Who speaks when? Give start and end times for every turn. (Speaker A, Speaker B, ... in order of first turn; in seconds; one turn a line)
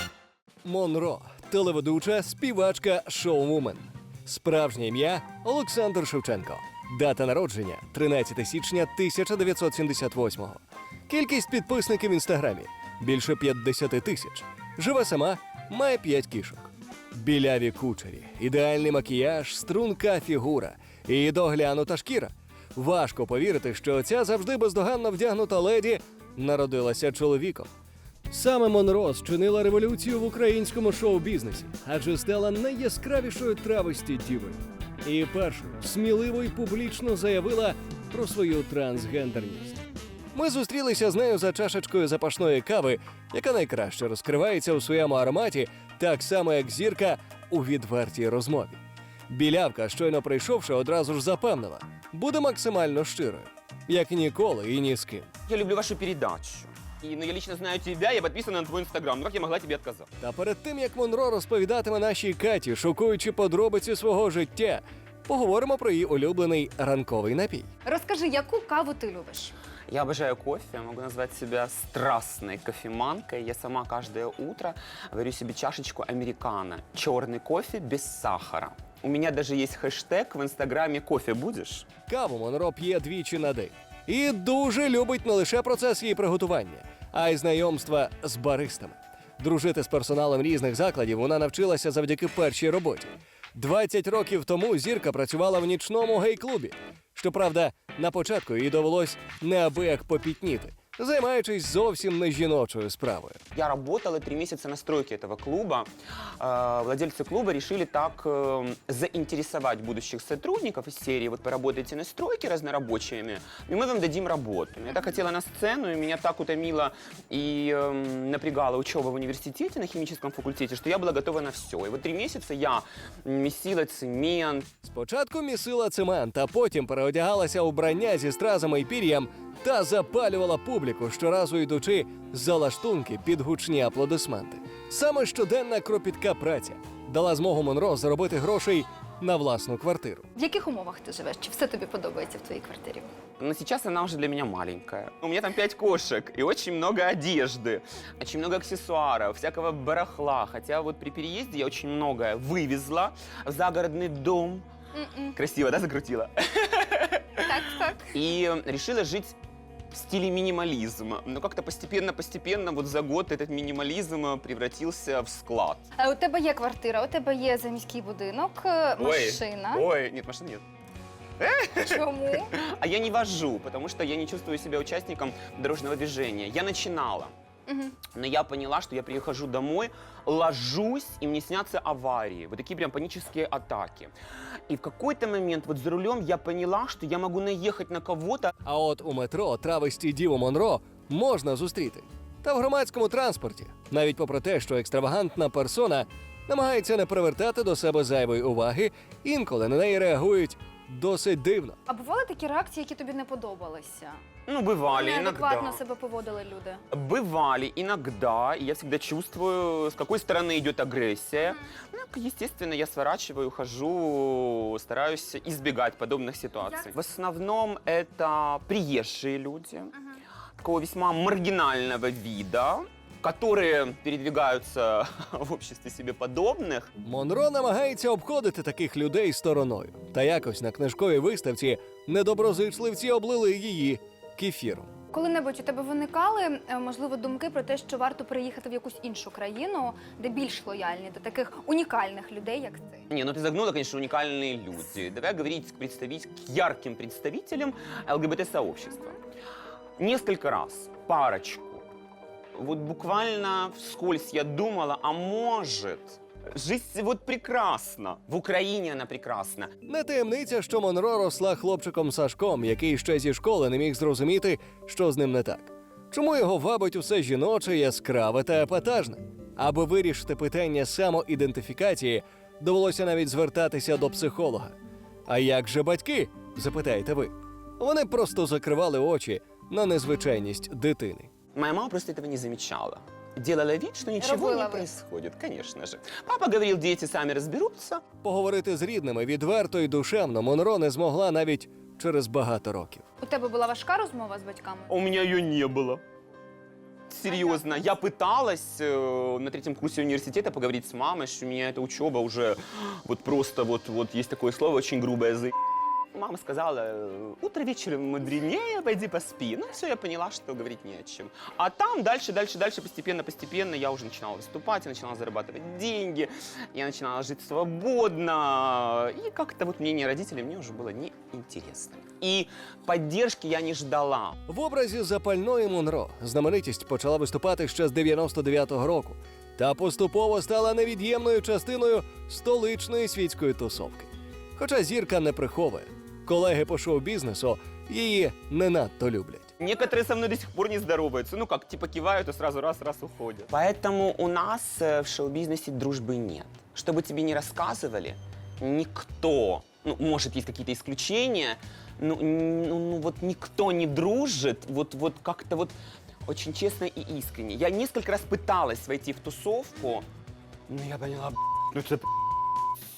Speaker A: 0.6-27.7
Speaker A: 28.3-39.8
Speaker A: 40.3-48.8
Speaker A: 49.3-55.3
Speaker B: 55.5-60.1
Speaker A: 60.2-67.7
Speaker C: 67.8-69.5
Speaker B: 69.9-81.9
Speaker A: 82.1-103.4
Speaker B: 103.5-105.9
Speaker B: 106.4-124.7
Speaker A: 124.8-140.3
Speaker C: 140.3-143.1
Speaker B: 143.4-154.7
Speaker C: 154.9-155.4
Speaker B: 155.3-157.5
Speaker C: 157.4-158.1
Speaker B: 158.1-159.3
Speaker B: 159.9-165.8
Speaker C: 166.0-169.8
Speaker B: 169.0-170.6
Speaker B: 171.4-177.3
Speaker C: 171.8-172.5
Speaker C: 177.7-178.0
Speaker B: 178.1-184.1
Speaker B: 184.7-188.5
Speaker A: 188.6-201.8
Speaker C: 201.9-204.2
Speaker B: 204.5-205.8
Speaker C: 204.9-206.8
Speaker B: 206.9-220.0
Speaker B: 220.6-226.9
Speaker A: 227.0-234.9
Speaker C: 235.1-243.0
Speaker B: 243.1-249.2
Speaker B: 250.0-251.8
Speaker B: 252.6-259.7
Speaker A: 259.9-274.7
Speaker A: 275.3-281.3
Speaker B: 281.5-288.0
Speaker C: 284.2-284.9
Speaker A: 288.2-293.0
Speaker C: 293.2-294.9
Speaker B: 294.9-296.0
Speaker B: 297.1-305.5
Speaker C: 297.3-297.6
Speaker B: 306.1-324.4
Speaker A: 324.5-339.5
Speaker B: 339.6-355.7
Speaker B: 356.3-360.0
Speaker B: 360.7-362.1